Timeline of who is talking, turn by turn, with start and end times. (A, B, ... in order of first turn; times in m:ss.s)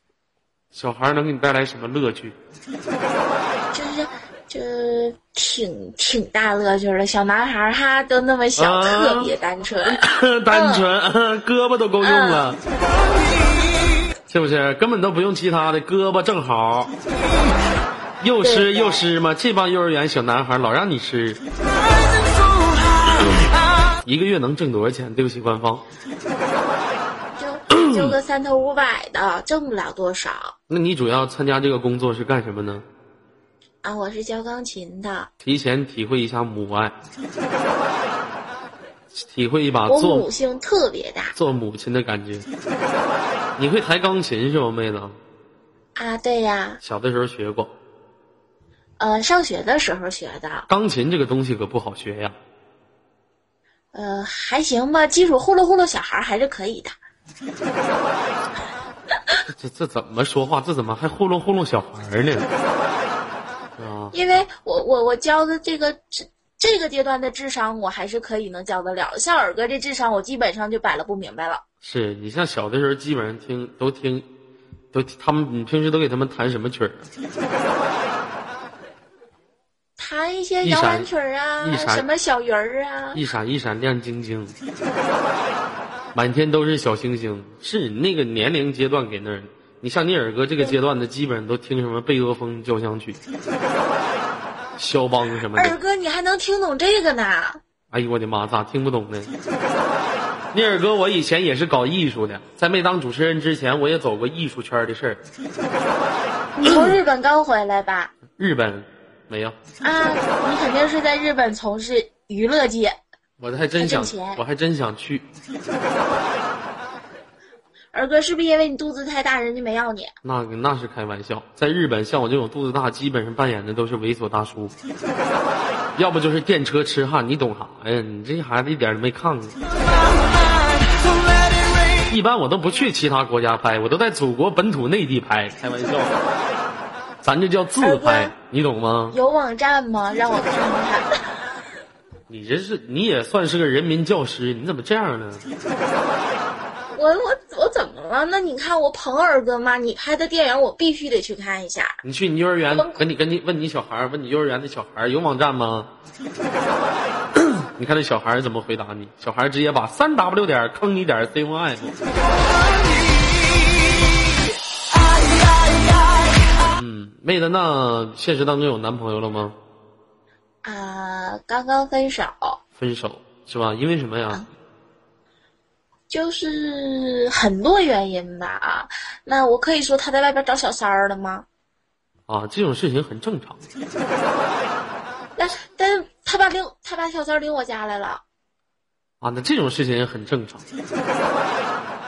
0:00.7-0:02.4 A
0:03.7-0:10.8 B
0:08.6-0:12.6 A
0:12.0-0:12.5 B
0:14.3-0:16.9 A
0:18.2-0:21.4 A
0:18.4-0:19.1 B
0:24.0-0:25.8 A
0:27.3-0:30.5 B
0:30.7-0:32.8 A
0:33.8-0:35.3 B
0:35.4-0:36.9 A
0:39.2-0:40.3 A
0:39.9-0:41.4 B
0:41.4-0:42.5 A
0:43.6-0:45.2 A
0:46.0-0:46.8 B
0:46.8-0:47.7 A
0:49.0-0:50.7 B
0:50.7-0:52.4 A
0:53.9-0:57.0 B
0:59.5-1:02.5 A
1:03.8-1:04.2 A
1:04.1-1:11.6 B
1:11.8-1:14.3 A
1:14.9-1:17.1 A
1:20.0-1:23.2 B
1:20.6-1:21.1 A
1:21.6-1:22.1 A
1:23.1-1:24.6 A
1:26.2-1:33.2 A
1:34.8-1:35.8 A
1:35.5-1:37.6 B
1:37.9-1:39.3 A
1:40.5-1:45.2 A
1:46.6-1:48.1 B
1:46.7-1:46.9 A
1:48.4-1:49.6 A
1:49.8-1:53.0 B
1:53.4-1:55.3 A
1:53.8-1:54.4 B
1:57.9-2:00.1 B
2:00.2-2:04.7 A
2:06.0-2:09.6 A
2:12.1-2:16.2 A
2:17.2-2:19.2 A
2:17.8-2:18.3 B
2:19.1-2:21.1 B
2:22.3-2:25.4 A
2:26.9-2:32.0 B
2:32.0-2:35.9 A
2:32.7-2:33.0 B
2:37.4-2:42.0 A
2:46.7-2:49.6 A
2:50.6-2:52.6 B
2:52.8-2:54.4 A
2:56.1-3:01.5 B
3:02.3-3:03.6 A
3:05.4-3:08.2 B
3:09.2-3:10.6 A